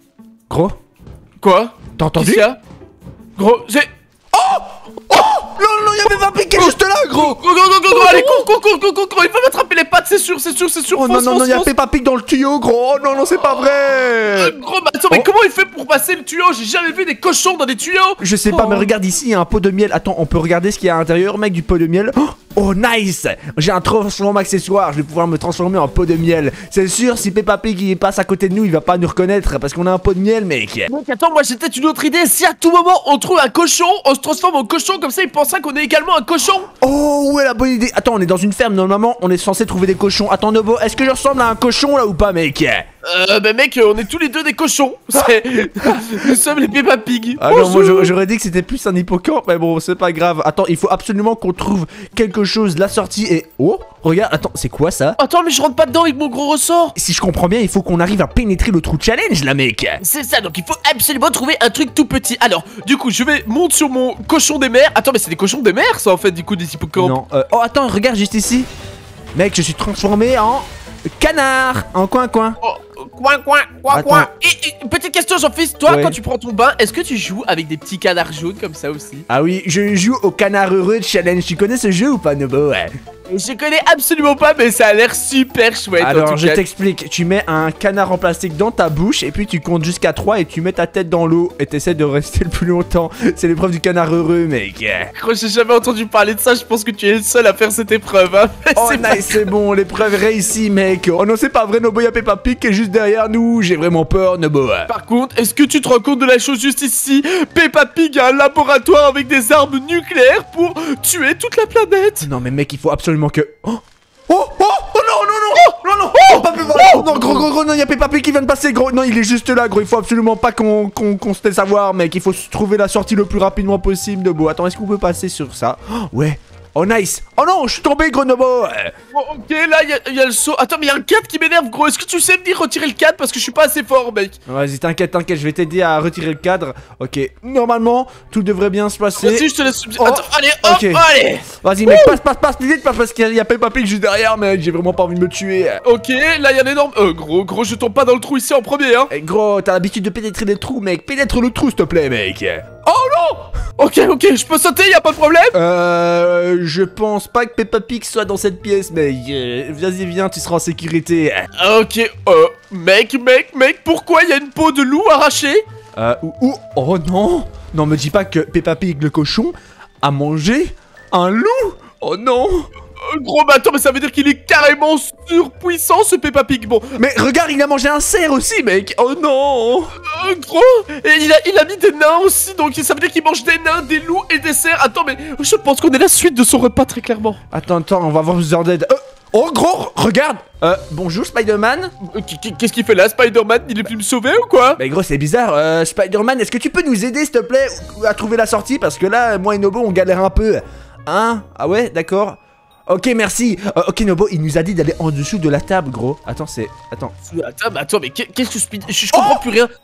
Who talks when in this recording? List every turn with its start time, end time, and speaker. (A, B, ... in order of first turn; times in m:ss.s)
0:00.5-0:00.8 A
0:01.4-0:02.6 B
0:02.0-0:02.5 A
0:03.4-0:03.9 B
0:04.3-0:08.4 A
0:06.5-0:11.7 B
0:10.9-0:14.5 A
0:14.3-0:18.9 B
0:18.2-0:30.9 A
0:30.9-0:36.7 B
0:36.8-0:42.8 A
0:43.0-0:48.1 B
0:47.4-0:55.2 A
0:55.2-0:56.9 B
0:57.0-1:00.0 A
1:00.0-1:07.2 B
1:07.0-1:08.7 A
1:09.3-1:10.6 A
1:11.2-1:12.6 A
1:12.6-1:19.2 B
1:13.9-1:14.3 A
1:15.9-1:16.2 A
1:19.3-1:22.9 A
1:23.3-1:26.6 B
1:26.0-1:35.1 A
1:35.1-1:39.5 B
1:38.8-1:44.9 A
1:44.9-1:52.3 B
1:52.2-2:08.9 A
1:56.1-1:57.4 B
2:09.1-2:14.4 B
2:14.5-2:19.5 A
2:19.2-2:22.2 B
2:20.0-2:25.8 A
2:25.8-2:29.1 B
2:29.1-2:33.5 A
2:33.8-2:35.6 B
2:35.5-2:41.5 A
2:41.6-2:45.6 B
2:46.0-2:52.7 A
2:53.0-2:57.0 B
2:56.9-2:59.9 A
3:00.0-3:07.4 B
3:07.5-3:11.9 A
3:12.0-3:14.8 B
3:14.8-3:27.1 A
3:27.2-3:29.7 B
3:29.1-3:29.4 A